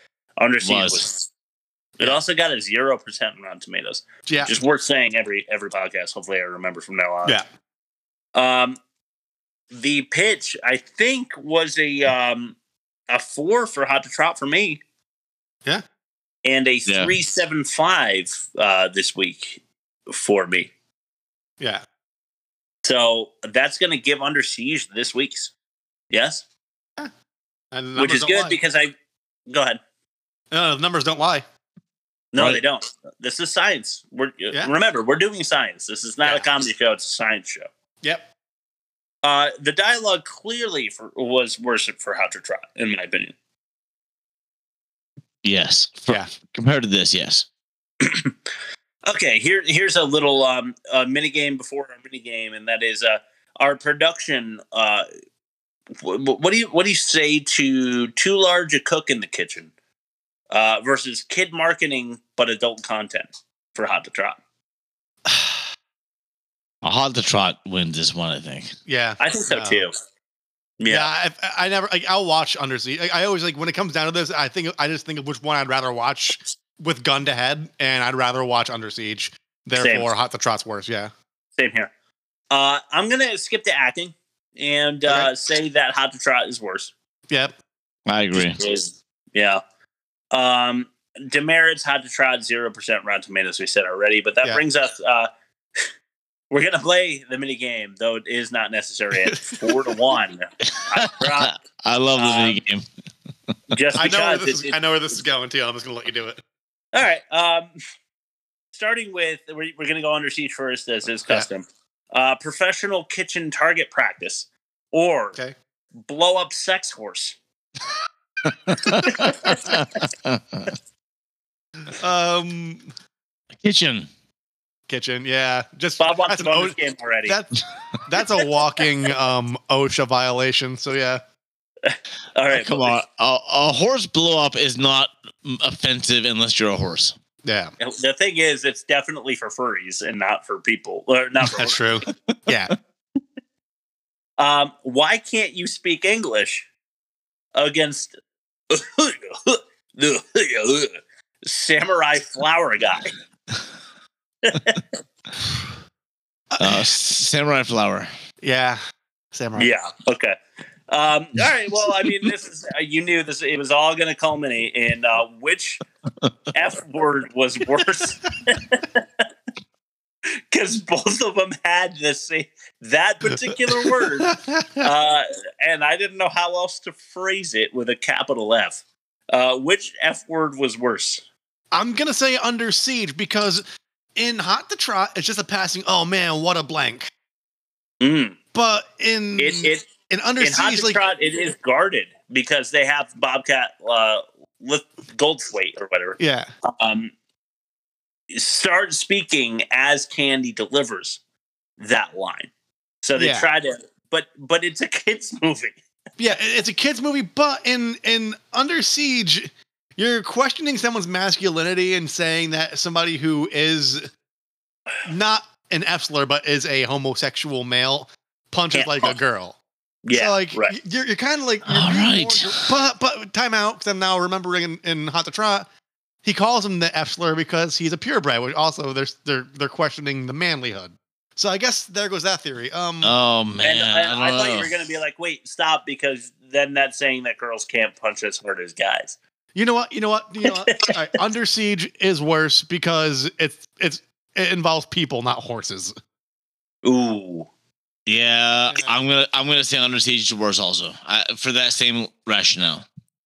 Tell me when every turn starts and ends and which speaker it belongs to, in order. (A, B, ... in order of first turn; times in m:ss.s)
0:00.4-0:01.2 A
0:00.6-0:01.1 B
0:02.0-0:07.4 A
0:04.3-0:04.6 C
0:08.4-0:08.8 A
0:09.7-0:12.6 A
0:13.1-0:14.8 A
0:16.4-0:20.7 A
0:16.9-0:17.1 B
0:22.8-0:25.5 A
0:26.1-0:26.4 A
0:27.7-0:28.6 C
0:28.0-0:28.9 A
0:29.5-0:29.8 A
0:30.5-0:31.4 C
0:32.3-0:37.7 A
0:38.0-0:38.3 C
0:39.2-0:43.3 A
0:45.4-0:47.5 B
0:48.0-0:48.3 A
0:49.1-0:55.1 A
0:56.0-0:59.7 A
1:00.5-1:04.4 A
1:05.3-1:05.6 C
1:06.8-1:08.7 B
1:08.9-1:09.8 C
1:09.2-1:09.9 A
1:10.8-1:11.1 A
1:10.9-1:21.1 C
1:19.8-1:20.1 A
1:21.6-1:21.9 A
1:22.5-1:26.9 A
1:27.3-1:27.6 C
1:28.1-1:28.6 B
1:28.3-1:29.6 A
1:30.3-1:35.3 A
1:36.5-1:41.5 A
1:39.2-1:39.9 C
1:40.9-1:42.8 B
1:42.1-1:42.6 A
1:43.7-1:44.8 A
1:44.0-1:46.4 C
1:46.9-1:47.7 A
1:48.7-1:55.4 A
1:56.0-1:57.4 A
1:58.7-2:00.0 B
1:58.9-1:59.7 A
2:01.9-2:02.9 C
2:03.6-2:04.1 B
2:04.9-2:11.2 C
2:06.0-2:07.4 A
2:11.8-2:13.0 A
2:12.5-2:17.1 B
2:17.4-2:17.7 C
2:17.8-2:21.8 A
2:21.6-2:22.7 C
2:24.4-2:26.7 A
2:27.6-2:28.2 A
2:28.7-2:33.1 A
2:34.4-2:34.8 A
2:36.5-2:36.9 C
2:36.6-2:38.1 B
2:38.4-2:38.8 C
2:39.3-2:39.7 C
2:39.6-2:40.4 A
2:40.9-2:45.8 A
2:46.5-2:49.2 A
2:50.5-2:58.8 A
2:53.8-2:54.9 C
2:59.3-3:01.2 A
3:01.7-3:03.6 C
3:04.2-3:07.1 C
3:08.0-3:08.4 A
3:08.5-3:11.0 C
3:09.4-3:09.8 A
3:10.4-3:17.1 A
3:16.2-3:16.5 C
3:18.3-3:21.2 A
3:21.8-3:22.5 A
3:23.0-3:25.8 A
3:23.2-3:23.5 C
3:26.2-3:34.1 C
3:35.1-3:39.6 C
3:38.7-3:39.1 A
3:40.0-3:40.8 A
3:40.1-3:45.7 C
3:41.7-3:42.6 B
3:46.2-3:53.1 C
3:53.0-3:54.7 B
3:53.6-3:59.2 A
3:59.6-4:05.9 C
4:00.4-4:00.9 A
4:06.8-4:07.5 A
4:08.1-4:12.8 B